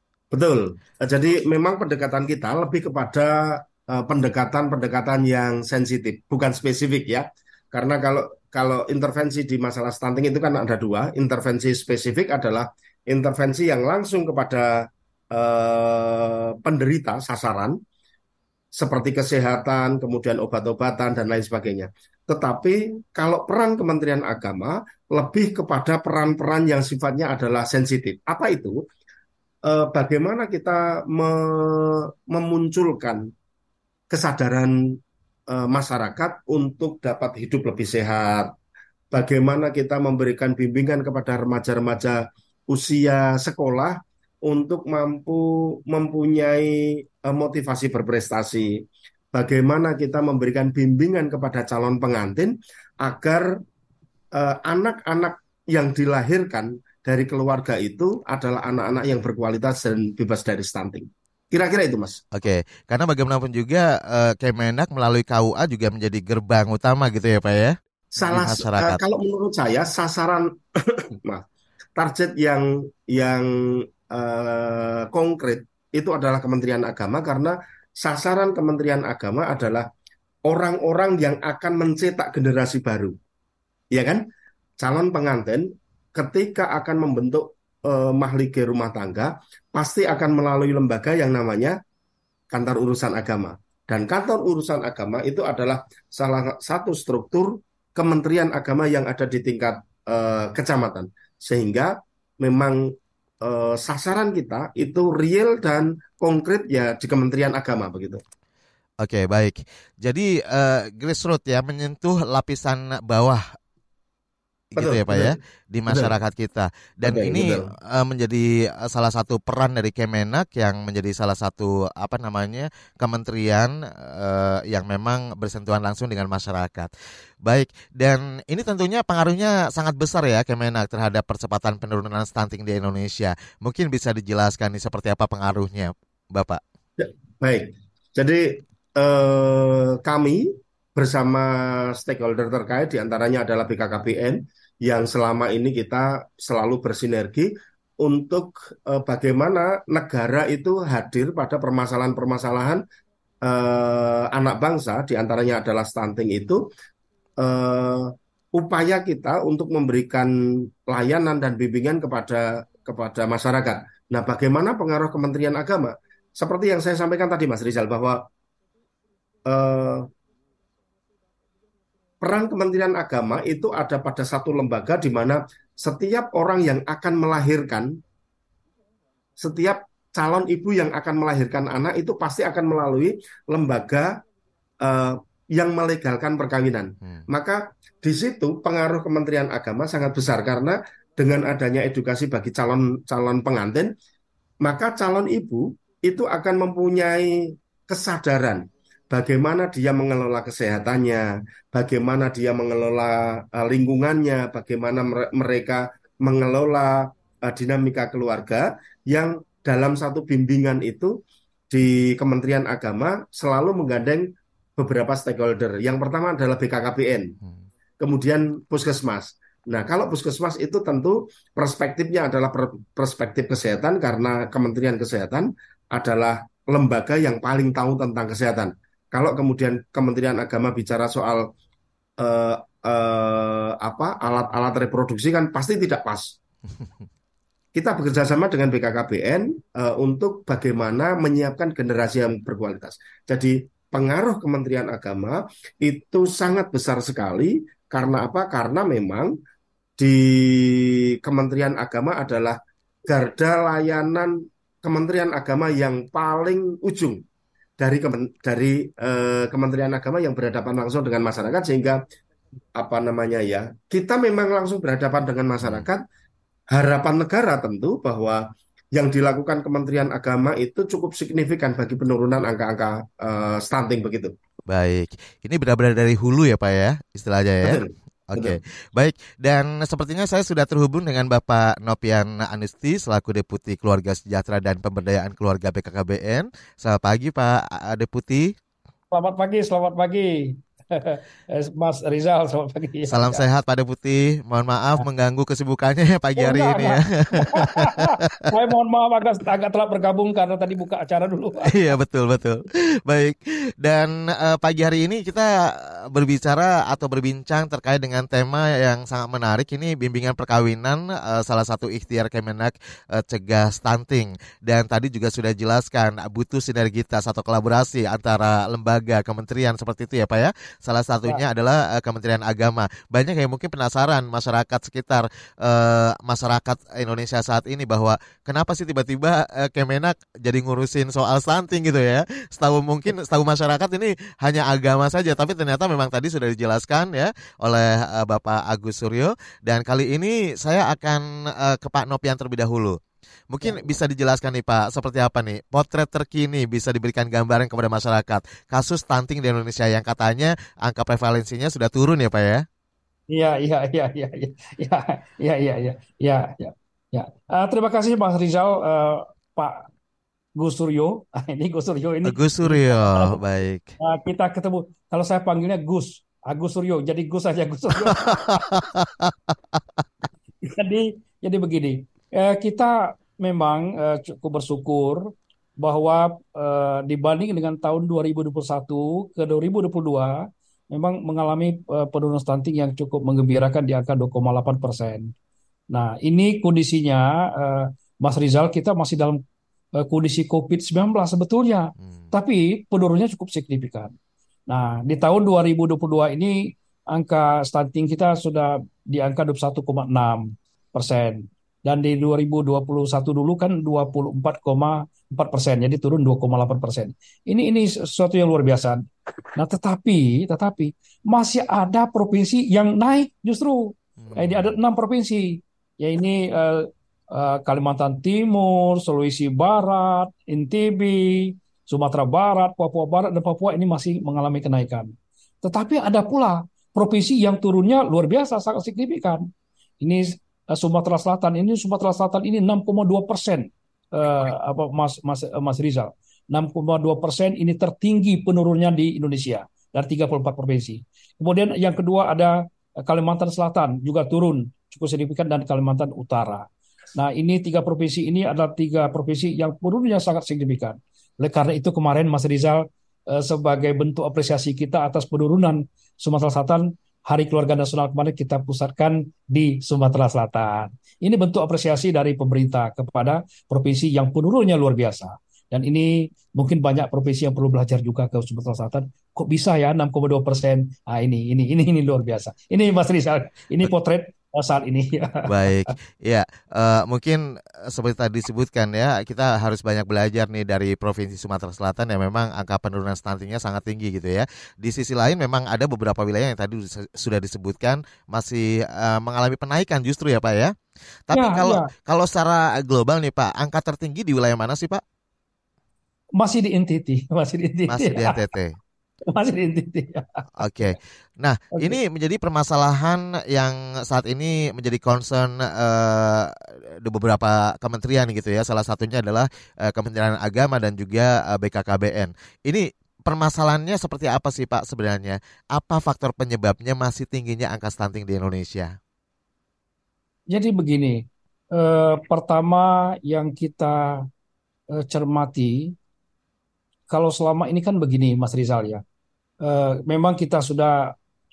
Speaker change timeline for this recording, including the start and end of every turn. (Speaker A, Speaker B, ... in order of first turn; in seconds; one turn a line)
Speaker A: 0.3-17.8
Speaker A: 18.7-28.8
Speaker A: 29.6-33.3
Speaker A: 34.1-35.0
Speaker A: 35.5-38.5
Speaker A: 39.1-53.6
Speaker A: 54.3-62.2
Speaker B: 62.3-69.0
Speaker A: 68.1-71.4
Speaker A: 72.0-79.9
Speaker A: 80.5-83.2
Speaker A: 83.9-84.2
Speaker A: 84.8-91.8
Speaker A: 92.5-108.2
Speaker B: 109.0-113.5
Speaker B: 114.7-126.9
Speaker A: 114.8-115.4
Speaker A: 117.0-117.7
Speaker B: 127.4-136.6
Speaker A: 137.0-152.8
Speaker A: 153.4-156.6
Speaker A: 157.4-168.2
Speaker A: 169.5-170.1
Speaker A: 172.2-178.0
Speaker A: 179.4-184.2
Speaker A: 184.8-193.9
Speaker A: 194.6-211.2
Speaker A: 211.7-217.4
Speaker A: 218.0-231.5
Speaker A: 232.2-236.3
Speaker A: 237.8-249.3
Speaker A: 250.0-257.2
Speaker A: 257.8-262.0
Speaker A: 262.8-266.0
Speaker B: 265.6-265.9
Speaker A: 266.7-274.3
Speaker B: 274.7-288.6
Speaker A: 277.6-278.6
Speaker C: 289.1-293.4
Speaker B: 293.1-298.1
Speaker C: 296.4-301.7
Speaker B: 301.6-343.0
Speaker B: 343.5-352.6
Speaker C: 353.3-359.9
Speaker C: 360.6-363.4
Speaker B: 362.2-364.0
Speaker C: 364.0-368.4
Speaker B: 368.1-369.5
Speaker C: 370.6-385.3
Speaker C: 385.9-389.4
Speaker C: 390.0-394.1
Speaker C: 394.7-409.0
Speaker C: 409.6-425.1
Speaker B: 414.2-414.7
Speaker C: 425.6-429.5
Speaker C: 430.0-475.9
Speaker B: 475.5-490.7
Speaker B: 491.3-495.0
Speaker C: 491.3-491.9
Speaker C: 496.4-498.4
Speaker B: 497.9-498.8
Speaker C: 499.3-500.4
Speaker B: 500.6-519.0
Speaker C: 520.5-524.3
Speaker C: 525.0-525.9
Speaker C: 527.1-529.0
Speaker C: 529.6-531.1